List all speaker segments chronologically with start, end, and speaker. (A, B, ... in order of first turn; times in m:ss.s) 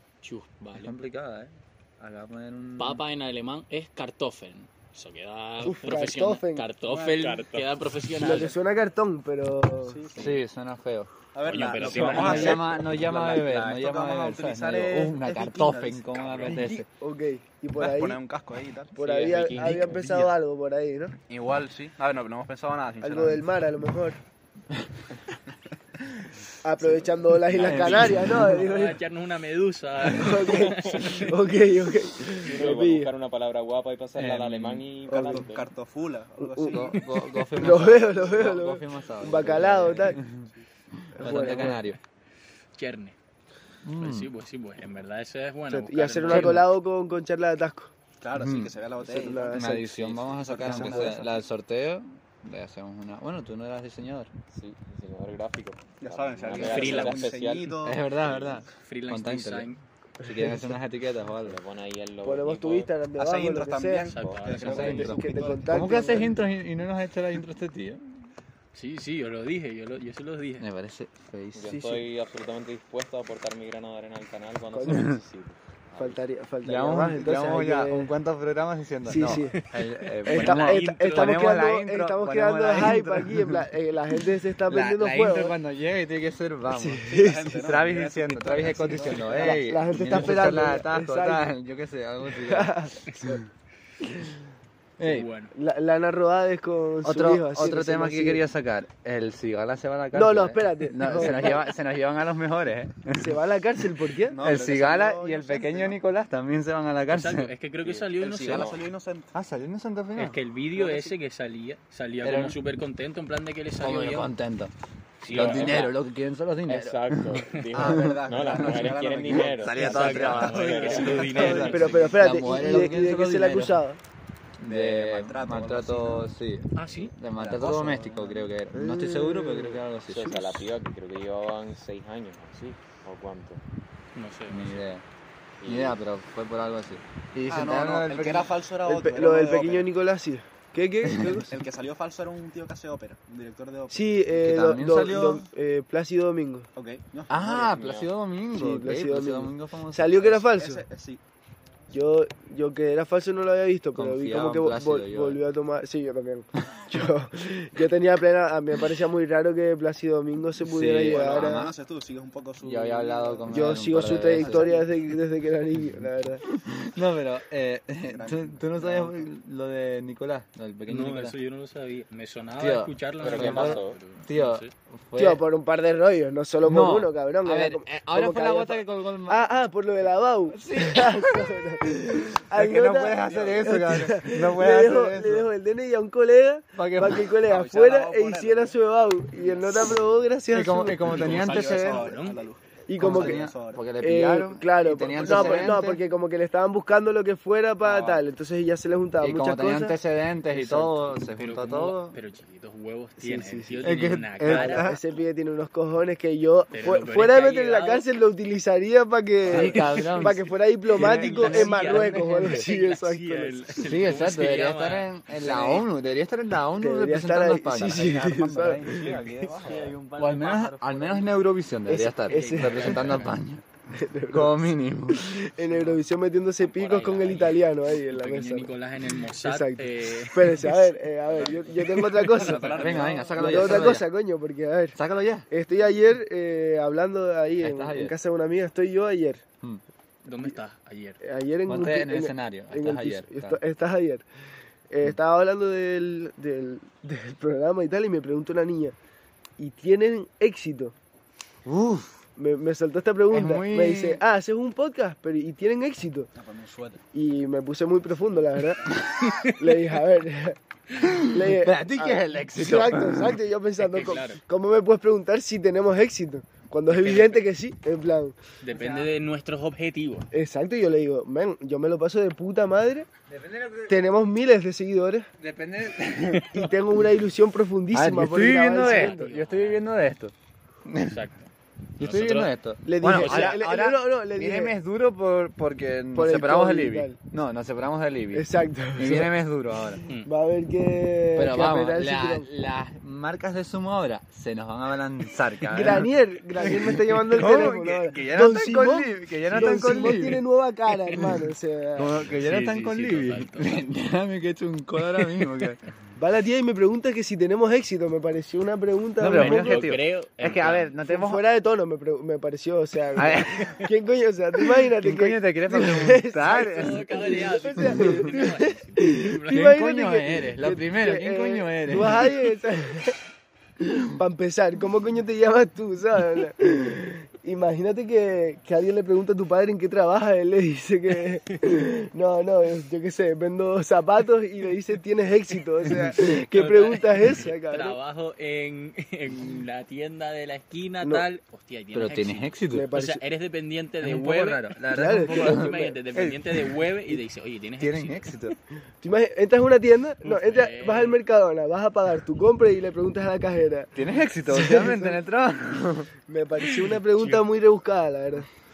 0:00.2-0:00.9 A
0:00.7-0:03.0 B
0:02.8-0:08.6 A
0:05.6-0:06.7 C
0:06.8-0:07.7 D
0:08.2-0:10.0 C
0:09.9-0:10.4 D
0:10.1-0:11.1 B
0:11.3-0:16.7 D
0:11.4-0:12.6 A
0:11.7-0:16.8 B
0:12.2-0:12.6 E
0:16.5-0:18.2 C
0:17.8-0:20.2 D
0:18.9-0:21.1 C
0:19.2-0:19.8 E
0:19.6-0:19.9 A
0:21.3-0:23.5 D
0:23.0-0:24.2 C
0:26.6-0:29.0 C
0:27.5-0:31.3 A
0:27.6-0:28.6 B
0:30.1-0:33.1 C
0:32.3-0:35.7 E
0:34.2-0:34.8 B
0:35.1-0:35.4 C
0:35.2-0:37.1 D
0:36.4-0:36.9 C
0:36.7-0:42.0 B
0:37.5-0:40.2 C
0:39.6-0:40.0 D
0:41.1-0:41.8 C
0:42.7-0:43.2 A
0:43.8-0:44.3 B
0:44.0-0:46.7 A
0:45.7-0:47.9 C
0:46.3-0:46.7 B
0:48.2-0:51.3 D
0:48.4-0:48.7 B
0:49.0-0:50.0 C
0:49.3-0:54.3 B
0:50.5-0:51.1 C
0:54.5-0:57.8 E
0:56.0-0:58.5 D
0:56.5-0:57.1 B
0:56.6-0:57.3 A
0:57.8-0:59.7 B
0:58.7-0:59.8 A
1:00.2-1:01.6 B
1:00.2-1:00.7 C
1:01.4-1:02.9 E
1:02.2-1:04.1 C
1:03.1-1:06.3 D
1:04.1-1:05.1 A
1:04.6-1:08.0 B
1:04.6-1:06.4 C
1:08.7-1:10.7 A
1:10.6-1:12.0 B
1:11.5-1:16.2 E
1:14.7-1:15.1 C
1:14.9-1:15.2 B
1:16.0-1:18.1 C
1:16.6-1:23.7 B
1:19.0-1:19.6 C
1:19.2-1:21.6 A
1:20.2-1:25.6 C
1:24.7-1:27.0 B
1:26.7-1:27.8 C
1:27.0-1:29.7 D
1:27.6-1:33.3 B
1:29.4-1:31.5 C
1:32.3-1:33.4 C
1:35.0-1:35.3 B
1:35.0-1:35.5 A
1:35.5-1:38.4 C
1:37.0-1:43.4 B
1:40.1-1:41.6 C
1:43.2-1:44.4 C
1:44.2-1:46.0 D
1:44.4-1:47.5 B
1:47.1-1:48.8 A
1:47.8-1:48.7 E
1:48.1-1:49.3 D
1:49.3-1:50.4 B
1:50.2-1:54.3 A
1:50.7-1:51.1 D
1:52.2-1:52.6 B
1:53.8-1:54.7 B
1:55.2-1:56.0 A
1:55.3-1:58.8 B
1:55.3-1:55.8 D
1:56.8-2:01.6 E
1:56.8-2:02.0 A
1:57.7-2:02.2 D
1:59.6-2:03.8 B
2:01.6-2:04.0 C
2:04.6-2:10.4 B
2:04.6-2:06.3 D
2:06.8-2:07.1 A
2:07.3-2:08.5 D
2:08.7-2:09.8 C
2:10.1-2:13.6 E
2:14.1-2:14.8 A
2:14.5-2:15.0 B
2:15.6-2:16.0 E
2:15.6-2:18.5 B
2:17.5-2:19.9 D
2:18.8-2:21.5 C
2:21.0-2:21.4 B
2:21.5-2:24.2 D
2:23.9-2:26.7 C
2:24.3-2:25.4 B
2:25.0-2:25.3 D
2:26.8-2:28.0 D
2:27.3-2:30.4 B
2:28.5-2:30.8 C
2:30.4-2:31.2 D
2:31.9-2:41.7 C
2:33.9-2:35.4 B
2:40.6-2:41.7 B
2:41.0-2:44.8 D
2:42.6-2:44.8 B
2:43.5-2:46.4 C
2:45.8-2:51.4 B
2:48.0-2:49.2 D
2:50.9-2:54.7 A
2:52.6-2:55.4 B
2:53.2-2:54.0 E
2:55.2-3:11.2 C
2:56.6-2:59.5 B
3:00.5-3:05.5 B
3:03.2-3:03.9 D
3:06.8-3:07.4 B
3:07.4-3:08.8 D
3:09.4-3:10.0 D
3:10.5-3:12.1 B
3:11.0-3:13.9 D
3:11.1-3:12.4 A
3:12.9-3:20.0 C
3:13.0-3:16.0 B
3:15.1-3:15.9 D
3:19.2-3:22.2 B
3:20.5-3:21.0 C
3:21.3-3:24.8 A
3:23.2-3:33.7 C
3:23.8-3:25.0 B
3:26.7-3:28.0 A
3:29.4-3:32.7 B
3:29.5-3:30.3 A
3:30.9-3:35.1 A
3:33.8-3:38.9 B
3:36.8-3:39.2 C
3:38.6-3:39.6 D
3:38.8-3:40.0 E
3:39.6-3:41.3 A
3:40.1-3:43.6 B
3:41.9-3:43.2 C
3:42.3-3:43.3 A
3:43.9-3:48.7 C
3:44.3-3:45.5 B
3:46.6-3:51.0 A
3:49.3-3:55.0 C
3:51.2-3:54.0 D
3:52.4-3:54.1 B
3:52.4-3:53.2 A
3:54.9-3:55.5 B
3:55.5-3:59.4 C
3:57.6-3:58.1 B
4:00.2-4:01.2 A
4:01.2-4:04.2 C
4:01.6-4:03.6 B
4:04.9-4:08.9 C
4:09.6-4:10.9 C
4:11.6-4:12.2 B
4:12.4-4:16.3 C
4:13.3-4:14.2 B
4:16.3-4:17.0 D
4:17.1-4:18.8 C
4:19.2-4:19.9 A
4:19.4-4:20.6 C
4:21.0-4:23.4 B
4:21.2-4:28.4 C
4:23.8-4:24.4 A
4:26.9-4:27.4 A
4:28.6-4:30.3 A
4:28.7-4:29.1 B
4:30.3-4:33.1 C
4:33.3-4:34.1 B
4:33.9-4:35.3 C
4:35.4-4:36.7 B
4:36.5-4:39.3 C
4:37.9-4:40.3 B
4:38.7-4:39.8 A
4:40.8-4:41.2 B
4:41.0-4:42.5 A
4:42.0-4:50.0 B
4:42.8-4:44.7 C
4:43.0-4:43.6 A
4:46.1-4:47.2 C
4:48.3-4:49.3 C
4:50.2-4:52.5 C
4:51.3-5:00.4 B
4:55.7-5:02.2 C
5:01.1-5:05.8 B
5:02.3-5:03.8 A
5:06.2-5:09.8 C
5:09.2-5:11.4 B
5:09.2-5:10.9 A
5:11.1-5:23.2 C
5:13.1-5:13.8 B
5:13.5-5:13.8 A
5:14.8-5:18.3 B
5:16.4-5:19.8 A
5:19.5-5:22.4 B
5:23.8-5:38.0 C
5:31.5-5:31.7 A
5:35.9-5:44.7 A
5:41.9-5:42.9 B
5:42.7-5:43.2 C
5:44.0-5:46.7 B
5:44.9-5:46.0 C
5:45.3-5:48.3 A
5:47.8-5:48.6 B
5:49.0-5:53.9 C
5:50.2-5:51.2 A
5:53.9-5:56.1 B
5:54.5-5:55.2 C
5:56.3-5:58.5 C
5:57.1-5:57.4 A